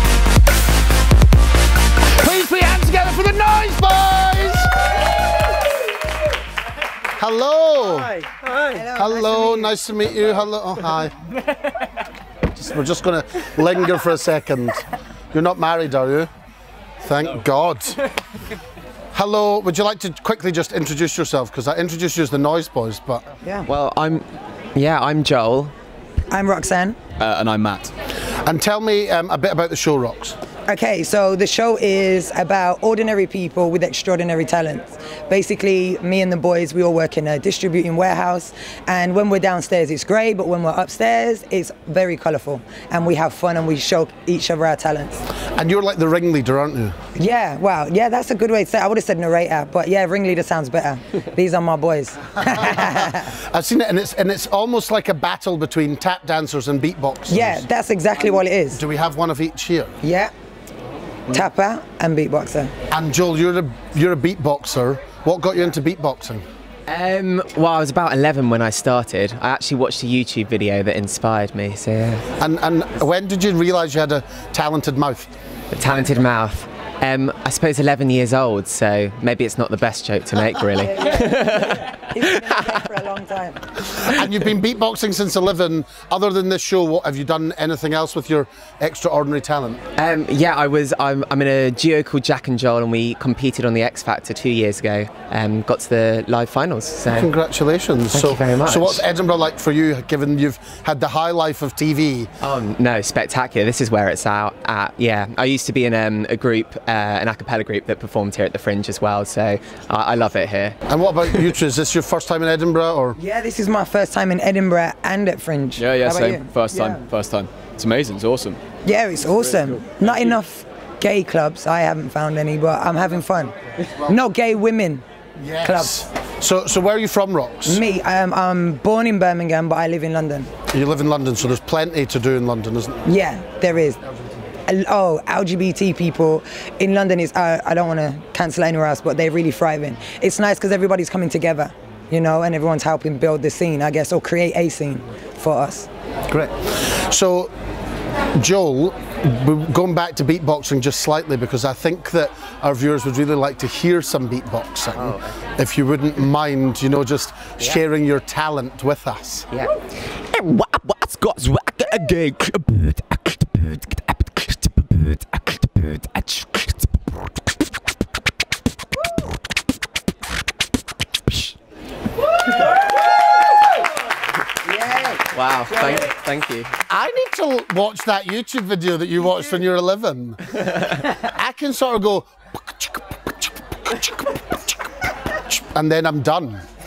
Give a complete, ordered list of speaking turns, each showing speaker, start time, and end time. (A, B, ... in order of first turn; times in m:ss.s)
0:02.1-0:04.9 A
0:07.2-0:08.2 A
0:08.3-0:08.6 B
0:08.7-0:09.8 C
0:08.9-0:11.1 A
0:12.5-0:16.3 A
0:17.0-0:18.0 A
0:19.1-0:23.3 A
0:23.4-0:23.7 C
0:23.7-0:24.2 B
0:24.8-0:25.7 B
0:26.3-0:27.0 C
0:27.2-0:27.9 D
0:28.3-0:30.4 A
0:30.7-0:45.3 C
0:45.5-0:47.0 A
0:47.2-0:53.4 C
0:52.4-0:57.6 A
0:57.3-0:58.8 C
0:58.7-1:00.0 A
1:00.0-1:00.3 C
1:01.3-1:02.7 C
1:02.9-1:06.4 A
1:06.9-1:12.2 B
1:12.4-1:15.3 A
1:15.7-1:21.9 B
1:20.8-1:23.7 C
1:23.8-1:29.8 A
1:30.0-1:37.3 B
1:37.1-1:42.3 A
1:38.1-1:39.0 B
1:42.4-1:50.8 B
1:50.9-1:53.2 A
1:53.2-1:57.0 C
1:55.8-1:58.6 D
1:58.8-2:05.0 C
2:05.4-2:07.8 A
2:05.6-2:06.1 C
2:07.6-2:10.5 C
2:10.7-2:13.1 A
2:13.1-2:14.0 C
2:14.7-2:25.9 C
2:26.3-2:27.5 A
2:28.4-2:39.5 A
2:35.0-2:35.3 B
2:39.5-2:46.8 B
2:54.6-2:56.1 C
2:55.3-2:56.8 B
2:56.9-3:04.7 A
3:05.3-3:06.6 A